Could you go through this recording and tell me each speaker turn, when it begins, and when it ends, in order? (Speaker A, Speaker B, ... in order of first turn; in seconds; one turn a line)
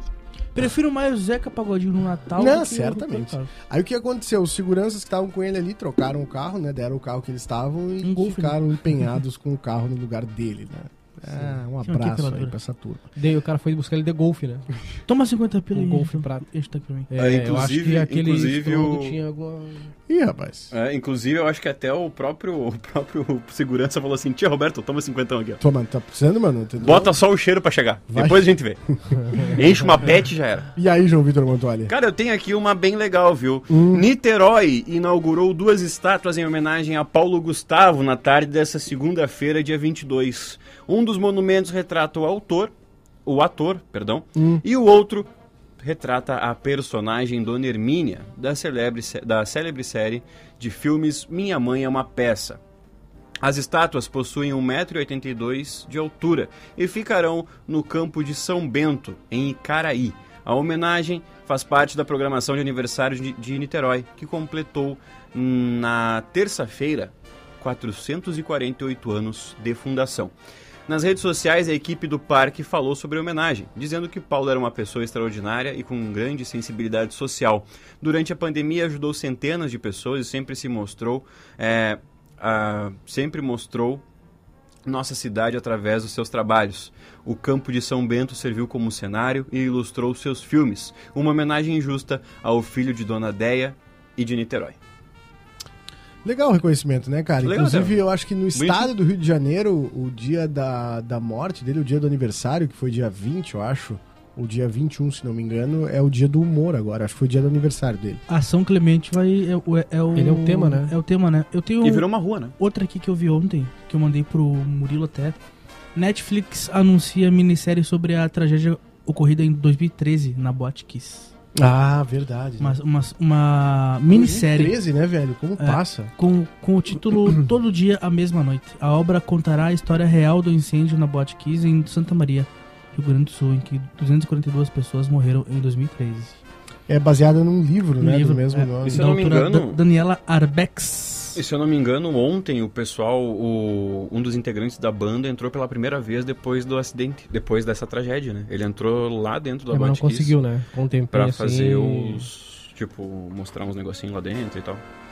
Speaker A: 0.5-3.5
Speaker B: 2.4-13.1
Speaker A: 8.0-9.1
Speaker A: 11.8-12.5
Speaker C: 13.2-14.7
Speaker A: 15.1-17.1
Speaker C: 15.7-16.4
Speaker C: 17.1-19.9
Speaker D: 17.2-19.2
Speaker B: 20.1-20.7
Speaker D: 20.7-25.6
Speaker B: 25.6-27.1
Speaker D: 26.8-28.8
Speaker B: 28.1-28.5
Speaker B: 29.3-29.6
Speaker D: 29.4-30.7
Speaker B: 30.8-31.9
Speaker D: 31.9-42.7
Speaker B: 33.7-34.1
Speaker D: 43.2-45.3
Speaker B: 44.4-44.6
Speaker D: 45.8-52.6
Speaker D: 53.4-70.3
Speaker D: 70.9-84.0
Speaker D: 84.8-94.8
Speaker B: 96.2-108.2
Speaker D: 97.4-98.0
Speaker D: 98.5-98.9
Speaker A: 108.3-112.1
Speaker C: 110.2-110.9
Speaker D: 111.8-112.5
Speaker A: 112.6-115.4
Speaker A: 116.0-121.3
Speaker B: 121.5-122.8
Speaker A: 122.6-124.8
Speaker B: 124.1-126.1
Speaker A: 125.6-136.4
Speaker B: 136.9-139.0
Speaker A: 138.0-141.4
Speaker D: 138.8-139.8
Speaker D: 141.3-150.4
Speaker C: 149.7-152.3
Speaker D: 151.1-154.8